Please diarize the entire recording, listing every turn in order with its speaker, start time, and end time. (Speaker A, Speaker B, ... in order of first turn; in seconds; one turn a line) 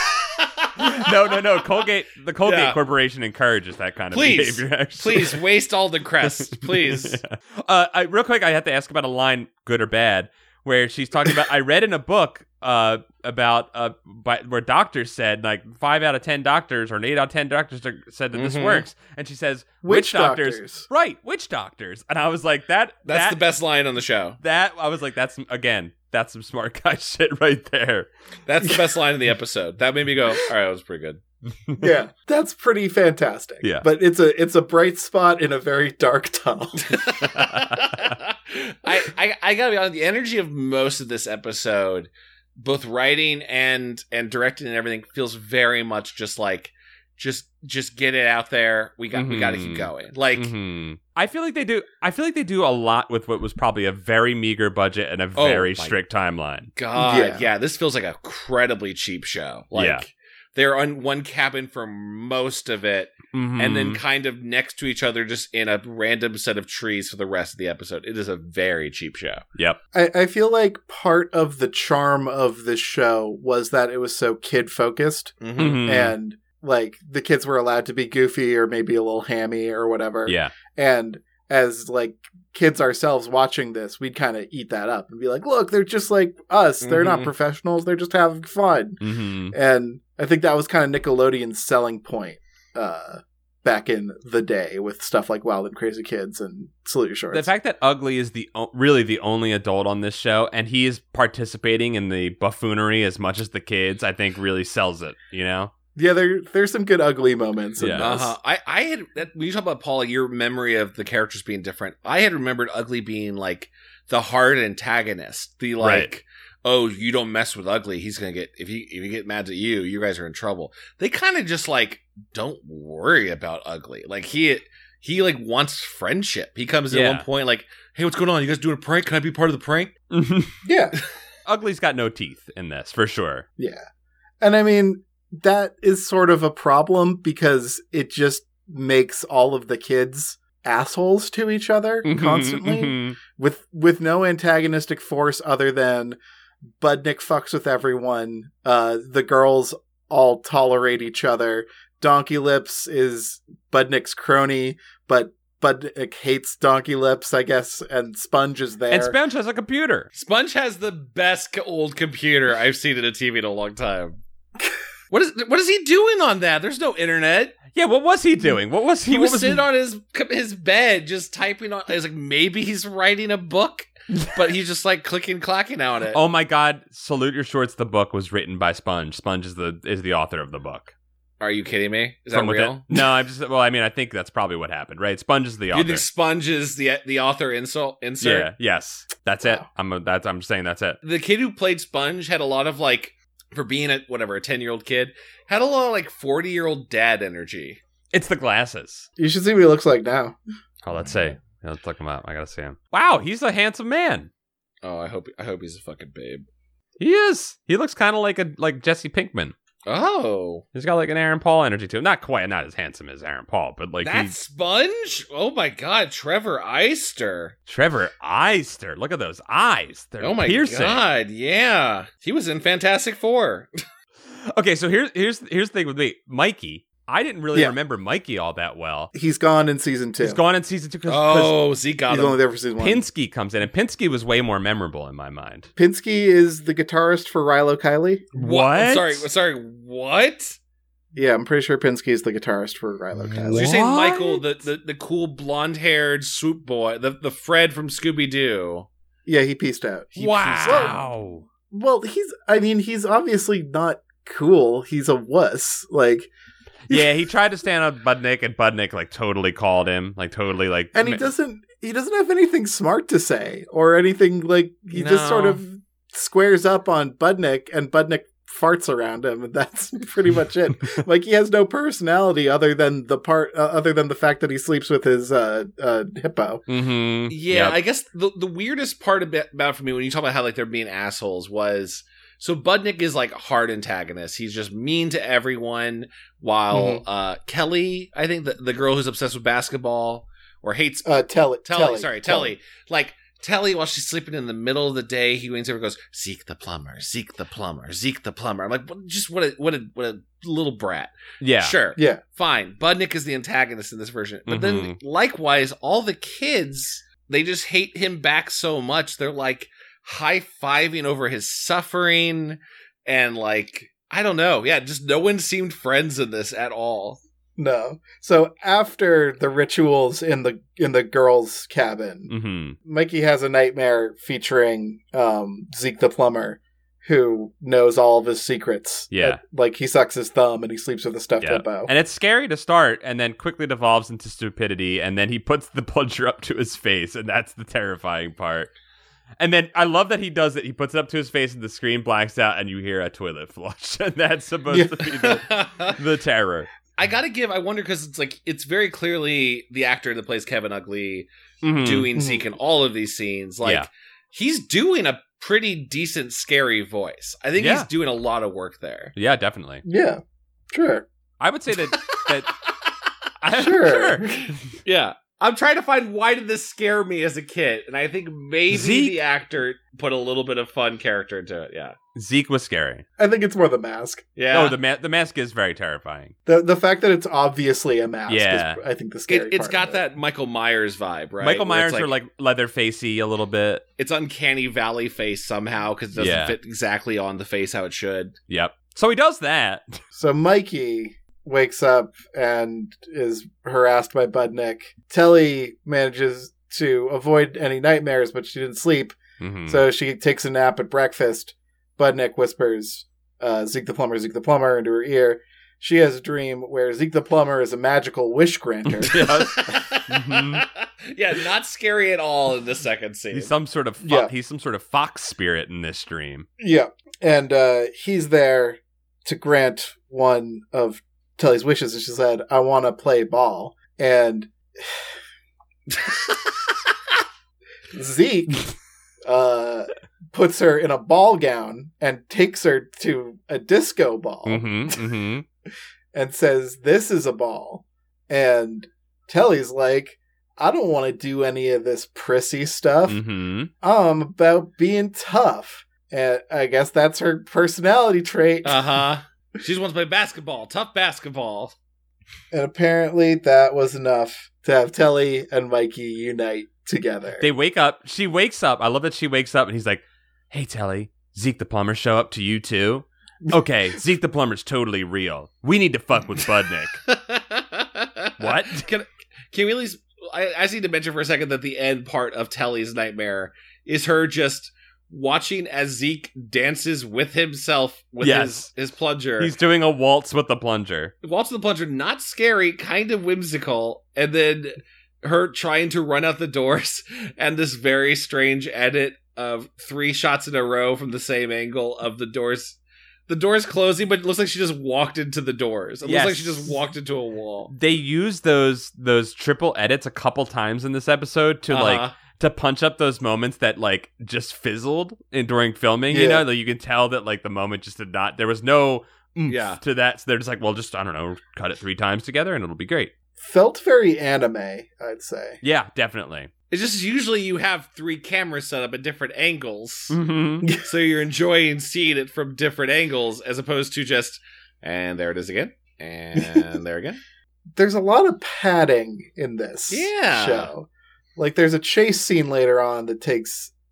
Speaker A: 0.4-1.1
Speaker B: 0.8-5.4
Speaker A: 2.5-2.8
Speaker A: 4.1-7.2
Speaker B: 6.2-23.4
Speaker A: 18.3-18.9
Speaker C: 19.8-20.9
Speaker A: 23.1-24.4
Speaker B: 24.4-28.1
Speaker A: 28.5-31.2
Speaker C: 31.8-37.0
Speaker A: 36.9-50.5
Speaker B: 49.1-56.7
Speaker A: 55.4-56.0
Speaker A: 56.8-69.4
Speaker C: 57.0-57.5
Speaker B: 59.7-60.0
Speaker B: 63.3-64.0
Speaker C: 69.9-89.0
Speaker A: 75.4-75.8
Speaker B: 75.6-76.2
Speaker B: 80.3-80.5
Speaker A: 86.8-87.3
Speaker B: 89.0-89.5
Speaker C: 89.5-97.5
Speaker B: 97.3-105.7
Speaker C: 106.0-108.3
Speaker B: 107.8-108.1
Speaker A: 108.0-129.9
Speaker B: 115.8-116.1
Speaker B: 126.9-127.2
Speaker B: 130.1-130.6
Speaker C: 130.6-131.0
Speaker B: 131.5-133.4
Speaker C: 133.6-133.8
Speaker C: 134.4-146.2
Speaker B: 142.0-143.2
Speaker C: 146.8-159.2
Speaker B: 158.9-160.1
Speaker A: 160.1-164.2
Speaker A: 165.1-167.6
Speaker B: 167.7-169.6
Speaker A: 169.1-176.2
Speaker B: 176.1-180.9
Speaker A: 181.4-182.9
Speaker B: 182.3-186.0
Speaker A: 185.7-188.5
Speaker B: 188.2-191.0
Speaker A: 191.0-197.8
Speaker B: 198.1-199.1
Speaker C: 199.2-200.4
Speaker B: 200.8-204.3
Speaker A: 204.8-206.5
Speaker B: 207.0-209.6
Speaker A: 209.9-210.6
Speaker B: 210.8-214.4
Speaker A: 214.0-217.6
Speaker B: 217.7-221.0
Speaker A: 220.2-223.7
Speaker B: 224.5-229.1
Speaker C: 229.1-230.4
Speaker B: 230.2-231.6
Speaker A: 231.1-232.4
Speaker C: 232.1-233.0
Speaker B: 232.8-235.7
Speaker C: 235.8-238.3
Speaker B: 238.3-239.2
Speaker A: 238.4-240.6
Speaker C: 241.1-243.6
Speaker B: 243.5-244.4
Speaker A: 243.5-248.9
Speaker C: 249.3-251.0
Speaker B: 250.2-251.4
Speaker A: 250.2-251.0
Speaker C: 251.7-256.3
Speaker B: 256.9-261.2
Speaker C: 260.9-276.6
Speaker A: 264.9-265.6
Speaker B: 276.7-277.8
Speaker A: 277.3-317.2
Speaker C: 286.8-287.0
Speaker C: 291.1-292.6
Speaker B: 301.4-301.8
Speaker C: 302.0-302.2
Speaker B: 304.5-305.0
Speaker C: 317.6-322.3
Speaker B: 322.3-322.8
Speaker C: 322.8-331.9
Speaker B: 329.1-329.4
Speaker B: 331.4-338.7
Speaker B: 339.4-346.7
Speaker C: 344.7-345.1
Speaker A: 345.2-346.0
Speaker A: 347.0-359.1
Speaker B: 351.6-352.1
Speaker C: 352.1-352.4
Speaker B: 357.6-357.9
Speaker B: 359.2-359.8
Speaker C: 359.9-360.2
Speaker C: 360.7-361.1
Speaker B: 361.4-362.6
Speaker B: 363.4-364.8
Speaker C: 363.6-364.5
Speaker A: 364.8-372.0
Speaker B: 368.7-369.2
Speaker B: 372.1-373.0
Speaker C: 373.2-374.3
Speaker A: 374.4-374.8
Speaker B: 374.5-376.3
Speaker C: 376.5-380.0
Speaker B: 378.3-378.8
Speaker A: 379.3-382.1
Speaker B: 381.4-383.8
Speaker A: 384.0-388.4
Speaker B: 386.2-386.6
Speaker B: 388.5-390.0
Speaker C: 390.1-409.6
Speaker B: 399.4-399.8
Speaker B: 408.9-410.6
Speaker A: 409.6-413.5
Speaker B: 413.3-416.5
Speaker C: 414.0-414.3
Speaker C: 416.6-425.1
Speaker C: 427.9-428.7
Speaker C: 429.2-434.7
Speaker B: 434.5-435.4
Speaker C: 436.1-443.2
Speaker B: 443.1-443.7
Speaker C: 443.8-448.9
Speaker A: 448.6-451.8
Speaker C: 452.5-457.5
Speaker B: 457.4-467.0
Speaker A: 467.1-479.5
Speaker B: 468.4-468.9
Speaker B: 478.2-478.7
Speaker B: 479.4-481.1
Speaker A: 481.2-497.7
Speaker B: 496.0-496.8
Speaker B: 497.7-513.1
Speaker A: 501.7-502.1
Speaker C: 506.1-506.5
Speaker A: 509.5-509.8
Speaker C: 513.4-515.6
Speaker B: 515.6-516.5
Speaker A: 516.7-520.2
Speaker B: 520.1-520.7
Speaker A: 520.8-527.2
Speaker C: 526.4-526.6
Speaker C: 527.7-533.7
Speaker A: 529.9-530.7